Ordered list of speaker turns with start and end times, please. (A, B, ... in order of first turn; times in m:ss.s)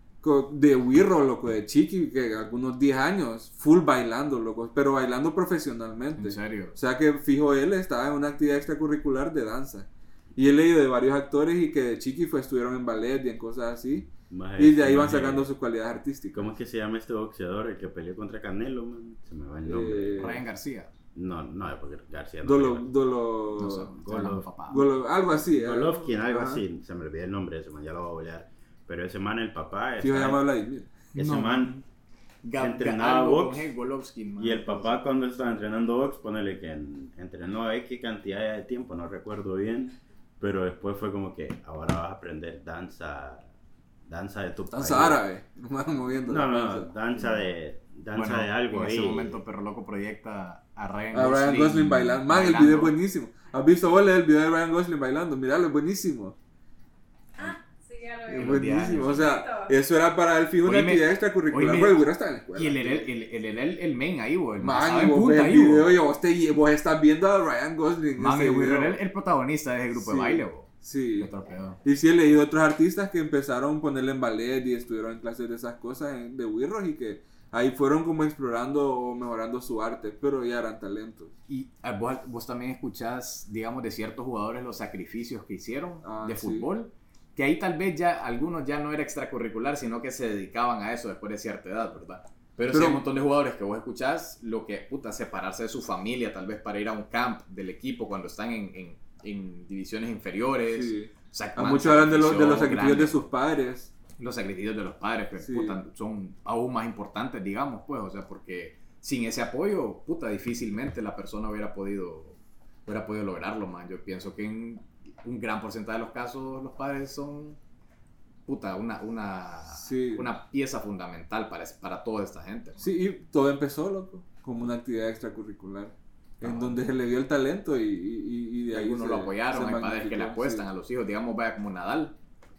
0:00.2-0:16.5 A
0:06.2-0:06.8 B
0:14.3-0:15.5 C
0:16.3-0:20.3 C
0:19.6-0:20.4 A
0:20.2-0:20.9 B
0:21.1-0:22.9 C
0:22.4-0:23.9 A
0:23.6-0:24.8 B
0:24.0-0:24.5 C
0:24.7-0:26.6 A
0:25.5-0:30.4 C
0:30.0-0:31.0 A
0:31.1-0:31.8 C
0:31.2-0:31.8 B
0:32.4-0:35.0 B
0:32.6-0:33.7 C
0:34.4-0:43.5 C
0:44.1-0:45.2 C
0:44.7-0:46.9 A
0:46.2-0:49.4 C
0:48.1-0:52.9 B
0:51.1-0:56.3 A
0:57.4-0:59.7 D
0:58.3-1:03.1 A
0:58.3-0:59.2 B
1:00.6-1:05.9 B
1:04.6-1:09.0 A
1:08.2-1:11.8 B
1:09.9-1:11.3 A
1:11.8-1:21.3 A
1:21.5-1:43.2 B
1:26.0-1:26.7 A
1:32.7-1:33.0 A
1:40.7-1:43.9 A
1:44.2-1:57.6 B
1:45.4-1:45.8 A
1:58.4-2:03.0 B
1:59.8-2:00.3 A
2:02.8-2:10.6 A
2:06.4-2:06.8 B
2:08.7-2:12.1 B